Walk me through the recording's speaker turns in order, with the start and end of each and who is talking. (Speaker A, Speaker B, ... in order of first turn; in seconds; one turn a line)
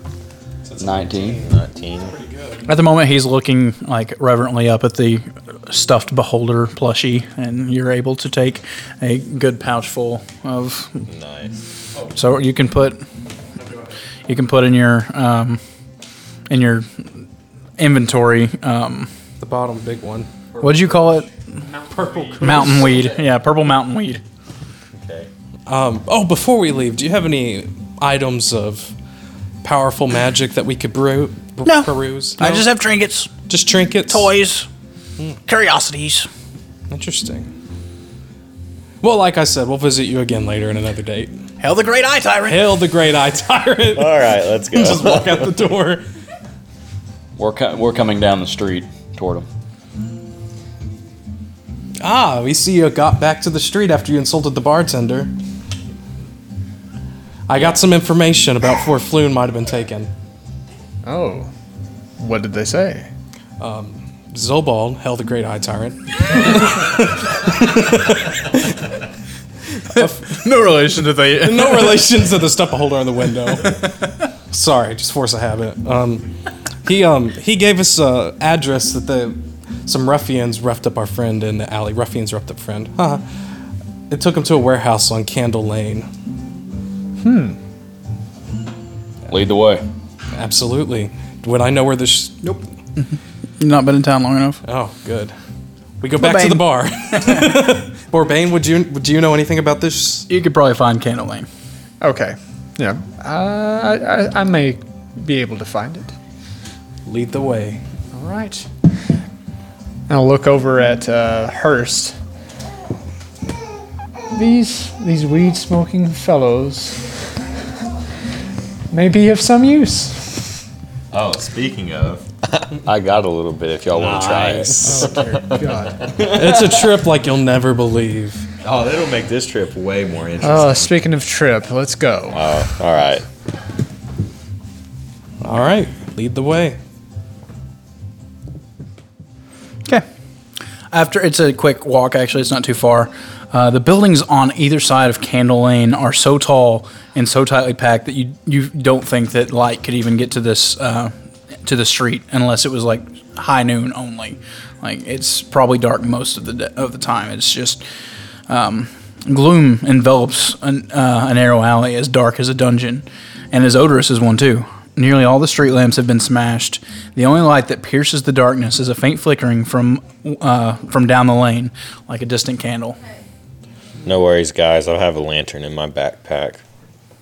Speaker A: 0.7-1.5
Speaker B: 0.8-1.4
Speaker C: 1.3-2.1
Speaker A: 2.0-2.7
Speaker D: 2.6-11.1
Speaker C: 11.1-11.5
Speaker D: 12.1-13.0
Speaker A: 13.6-13.9
Speaker D: 14.3-15.6
Speaker D: 16.5-17.1
Speaker D: 17.8-19.1
Speaker A: 19.4-20.7
Speaker D: 20.6-21.3
Speaker E: 21.6-22.6
Speaker A: 21.9-23.0
Speaker D: 22.4-24.2
Speaker C: 25.0-25.3
Speaker A: 25.7-28.9
Speaker A: 29.6-32.7
Speaker D: 31.6-33.3
Speaker A: 33.5-34.3
Speaker D: 34.1-34.7
Speaker D: 35.5-36.3
Speaker A: 36.9-37.5
Speaker A: 39.0-41.3
Speaker D: 41.6-42.7
Speaker A: 42.5-46.0
Speaker C: 43.9-45.5
Speaker B: 47.4-49.5
Speaker A: 52.0-55.3
Speaker A: 57.5-60.1
Speaker E: 61.0-61.5
Speaker E: 62.2-63.1
Speaker A: 63.6-68.8
Speaker D: 69.9-72.0
Speaker A: 71.4-73.9
Speaker A: 74.5-76.3
Speaker A: 76.8-83.2
Speaker A: 84.1-86.1
Speaker E: 87.2-87.6
Speaker B: 89.3-89.9
Speaker A: 90.3-92.5
Speaker D: 93.6-94.6
Speaker A: 94.6-95.3
Speaker A: 96.0-100.3
Speaker D: 96.2-97.6
Speaker D: 100.3-101.5
Speaker E: 102.0-106.1
Speaker A: 107.1-107.8
Speaker E: 108.1-108.7
Speaker E: 110.1-112.2
Speaker E: 114.3-117.2
Speaker E: 118.9-120.6
Speaker C: 121.1-126.3
Speaker B: 124.0-125.0
Speaker E: 124.8-126.1
Speaker A: 126.2-128.5
Speaker C: 128.6-131.0
Speaker E: 130.4-132.4
Speaker C: 132.3-133.3
Speaker A: 135.4-136.8
Speaker D: 140.9-151.1
Speaker D: 151.6-157.8
Speaker D: 158.5-173.0
Speaker C: 174.0-176.6